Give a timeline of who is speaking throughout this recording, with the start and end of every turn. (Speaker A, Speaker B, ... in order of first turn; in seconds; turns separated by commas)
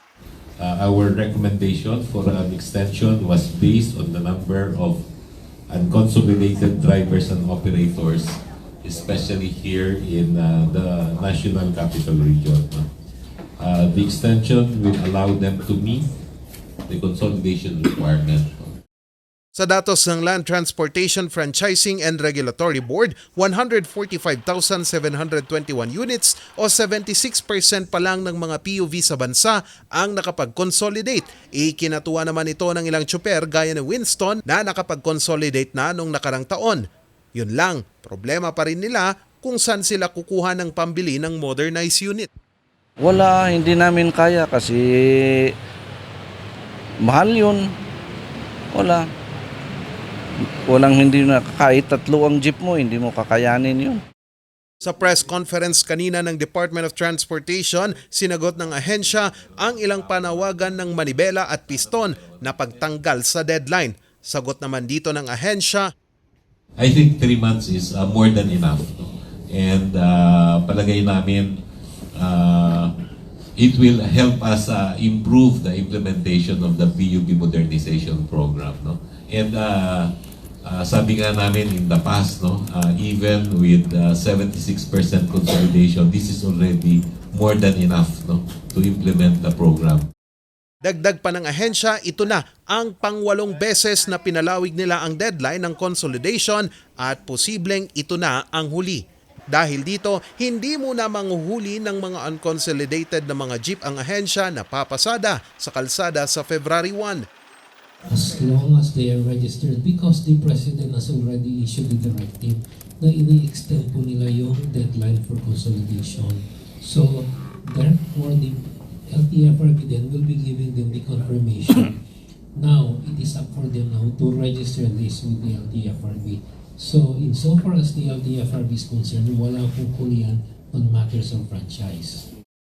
Speaker A: 0.6-5.0, Speaker A: 5.7-12.9, Speaker A: 13.6-16.1, Speaker A: 16.9-18.8, Speaker B: 19.5-36.8, Speaker B: 37.3-42.3, Speaker C: 43.0-45.5, Speaker C: 47.0-47.6, Speaker C: 48.7-49.0, Speaker C: 50.7-54.0, Speaker B: 54.8-65.9, Speaker A: 66.8-71.6, Speaker A: 72.1-72.9, Speaker A: 73.5-80.1, Speaker A: 80.6-90.1, Speaker B: 90.8-107.2, Speaker D: 108.0-122.0, Speaker D: 122.5-132.3